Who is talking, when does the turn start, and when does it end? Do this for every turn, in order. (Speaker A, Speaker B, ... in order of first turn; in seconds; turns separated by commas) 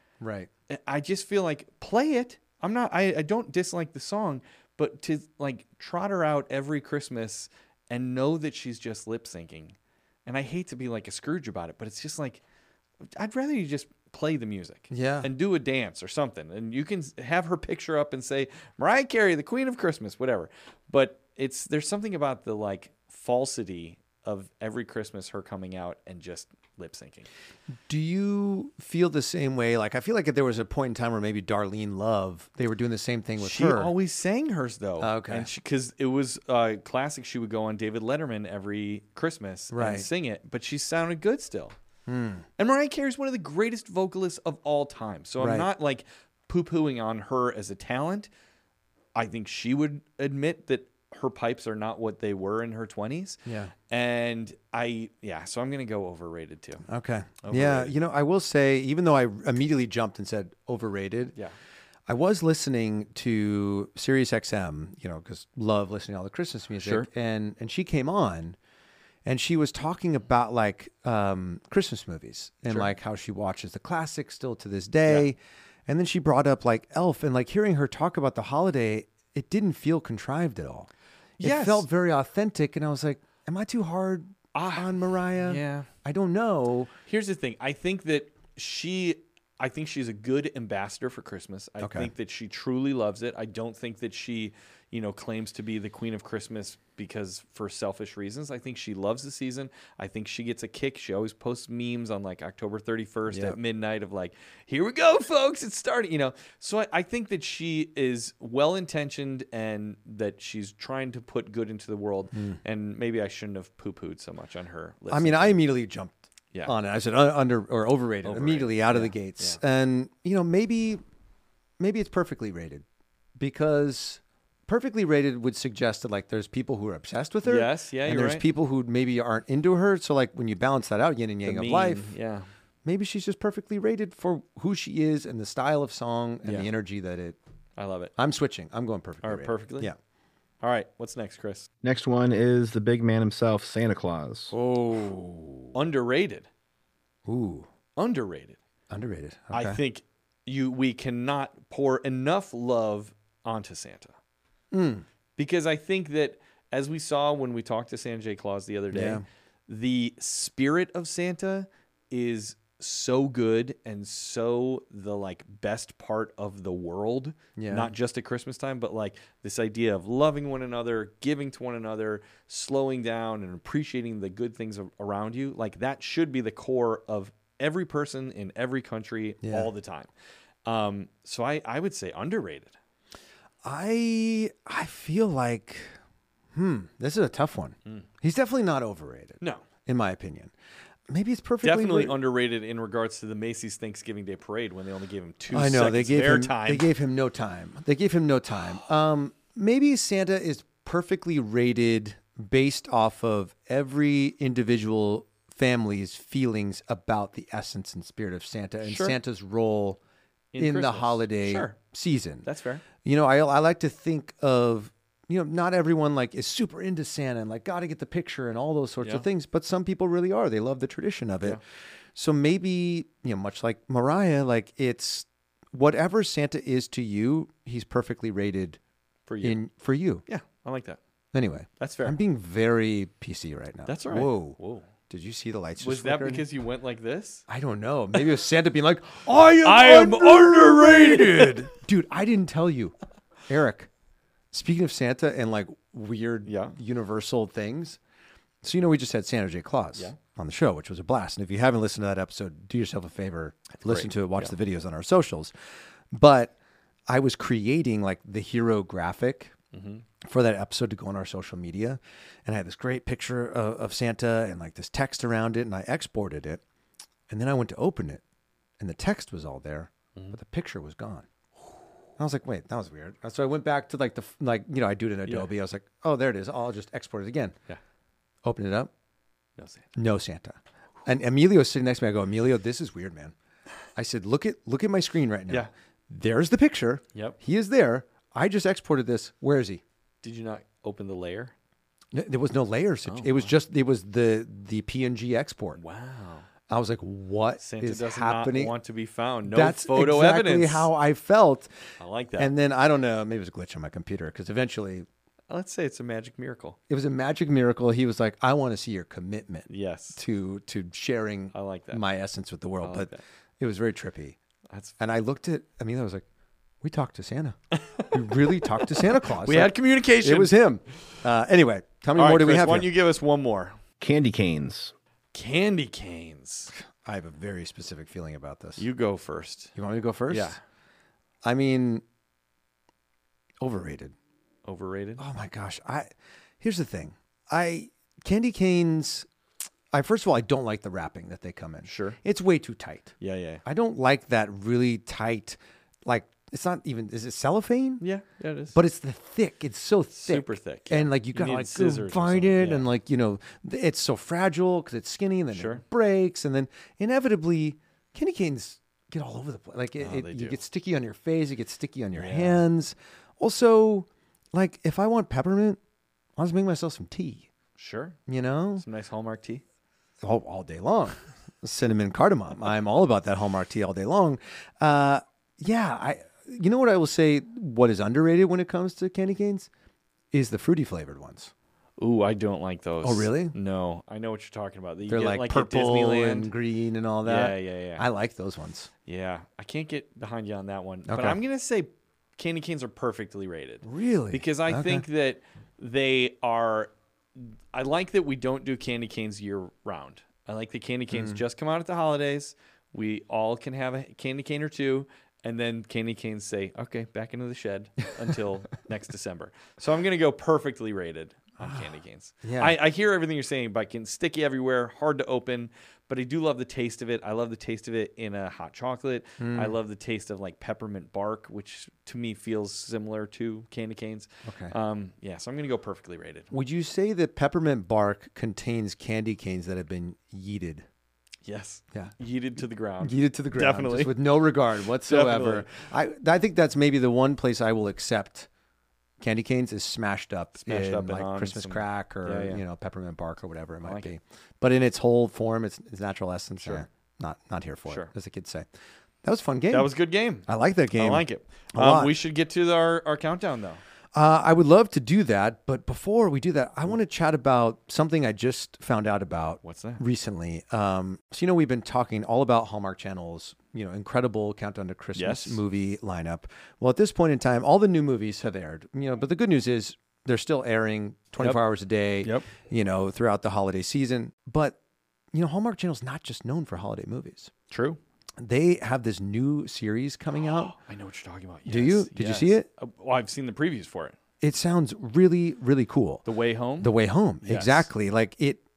Speaker A: 0.2-0.5, Speaker B: 0.7-12.4, Speaker B: 13.1-27.3, Speaker A: 14.9-15.3, Speaker A: 27.9-33.9, Speaker B: 33.4-41.8, Speaker A: 35.0-35.5, Speaker A: 39.7-40.1, Speaker A: 42.1-42.5, Speaker B: 42.6-48.3, Speaker A: 45.4-45.7, Speaker B: 49.1-56.9, Speaker A: 53.5-53.7, Speaker A: 56.9-61.4, Speaker B: 57.4-58.0, Speaker A: 62.1-68.6, Speaker B: 66.8-67.1, Speaker A: 69.2-80.9, Speaker B: 81.4-81.9, Speaker A: 81.4-86.9, Speaker B: 84.5-85.9, Speaker B: 87.1-115.6, Speaker A: 91.8-92.1, Speaker A: 103.3-103.6, Speaker A: 112.3-112.6, Speaker A: 115.1-121.0, Speaker B: 118.2-119.6, Speaker A: 121.8-122.8, Speaker A: 123.4-132.1, Speaker B: 127.4-128.5, Speaker B: 131.4-132.5, Speaker A: 132.8-137.4, Speaker B: 136.4-136.7, Speaker B: 137.8-138.1, Speaker A: 138.2-140.0, Speaker B: 139.2-139.9, Speaker B: 140.6-141.7, Speaker C: 141.8-144.5, Speaker A: 144.5-145.8, Speaker B: 145.8-146.5, Speaker A: 147.3-147.7, Speaker B: 148.0-148.6, Speaker A: 148.9-149.8, Speaker B: 149.5-154.2, Speaker A: 154.7-155.1, Speaker B: 155.4-180.1, Speaker A: 158.9-159.2, Speaker A: 167.6-167.9, Speaker A: 179.4-179.7, Speaker B: 180.7-182.8, Speaker A: 183.6-186.0, Speaker A: 186.5-190.5, Speaker B: 189.4-189.7, Speaker A: 191.1-192.2, Speaker B: 191.6-196.9, Speaker A: 195.5-210.0, Speaker B: 208.8-209.2, Speaker B: 210.5-211.8, Speaker A: 210.6-212.5, Speaker B: 212.4-212.8, Speaker A: 213.0-221.6, Speaker A: 222.2-228.8, Speaker B: 229.3-229.6, Speaker A: 229.4-230.2, Speaker B: 230.3-231.0, Speaker A: 231.3-234.6, Speaker B: 231.8-232.2, Speaker B: 233.9-234.9, Speaker A: 235.1-236.5, Speaker B: 235.8-237.4, Speaker A: 237.5-242.9, Speaker B: 239.6-241.7, Speaker A: 243.5-243.9, Speaker A: 244.5-248.0, Speaker B: 246.4-246.8, Speaker A: 248.6-255.5, Speaker B: 253.8-254.6, Speaker A: 256.1-256.5, Speaker A: 257.1-259.5, Speaker B: 259.7-260.1, Speaker A: 260.2-266.6, Speaker A: 267.3-268.2, Speaker A: 268.8-271.3, Speaker A: 272.2-277.6, Speaker A: 278.4-278.9, Speaker B: 279.6-279.9, Speaker A: 279.9-283.3, Speaker A: 283.9-289.8, Speaker B: 290.2-291.5, Speaker A: 292.1-295.8, Speaker B: 293.1-293.5, Speaker B: 295.8-296.5, Speaker A: 296.7-298.7, Speaker B: 297.6-300.9, Speaker A: 299.5-301.7, Speaker B: 302.0-302.5, Speaker A: 302.4-305.1, Speaker B: 305.5-306.8, Speaker A: 306.9-314.4, Speaker B: 309.7-310.2, Speaker B: 311.5-312.0, Speaker B: 312.8-313.2, Speaker B: 314.7-314.9, Speaker A: 315.0-316.2, Speaker A: 316.8-317.6, Speaker B: 317.7-320.6, Speaker A: 318.1-322.9, Speaker B: 322.1-323.8, Speaker C: 324.0-324.9, Speaker B: 325.3-326.7, Speaker A: 327.0-328.9, Speaker B: 328.8-329.7, Speaker A: 329.8-330.6, Speaker B: 330.3-330.6, Speaker A: 331.4-332.0, Speaker A: 333.6-334.1, Speaker B: 334.6-335.2, Speaker A: 335.2-336.1, Speaker A: 336.6-339.3, Speaker A: 339.9-348.0, Speaker B: 341.9-342.2, Speaker B: 343.2-343.6, Speaker B: 348.0-348.8, Speaker A: 348.7-365.8, Speaker B: 350.1-352.9, Speaker B: 355.5-355.8, Speaker B: 360.0-360.6, Speaker B: 362.1-362.6, Speaker A: 366.4-367.5, Speaker B: 367.8-368.2, Speaker A: 368.3-368.9, Speaker B: 368.8-369.6, Speaker A: 370.2-379.7, Speaker A: 380.3-381.5, Speaker B: 382.0-386.5, Speaker A: 383.0-383.6, Speaker A: 385.1-388.9, Speaker B: 387.2-388.1, Speaker B: 389.1-426.5, Speaker A: 391.1-391.4, Speaker A: 393.8-395.1, Speaker A: 401.1-401.4, Speaker A: 411.6-411.9, Speaker A: 412.4-412.8, Speaker A: 419.4-419.8, Speaker A: 424.4-424.7, Speaker A: 426.5-430.9, Speaker B: 431.4-434.1, Speaker A: 433.0-438.5, Speaker B: 435.0-435.7, Speaker A: 439.2-448.7, Speaker B: 440.6-442.6, Speaker B: 443.8-444.1, Speaker B: 446.6-446.9, Speaker A: 449.2-449.9, Speaker B: 449.7-453.8, Speaker A: 450.5-452.1, Speaker A: 454.1-474.8, Speaker B: 459.6-460.0, Speaker B: 465.2-465.6, Speaker B: 472.2-472.5, Speaker A: 475.3-477.5, Speaker B: 477.7-478.0, Speaker A: 478.4-480.7, Speaker B: 480.4-484.2, Speaker A: 481.7-482.7, Speaker A: 484.4-486.2, Speaker B: 486.2-487.9, Speaker A: 486.8-488.6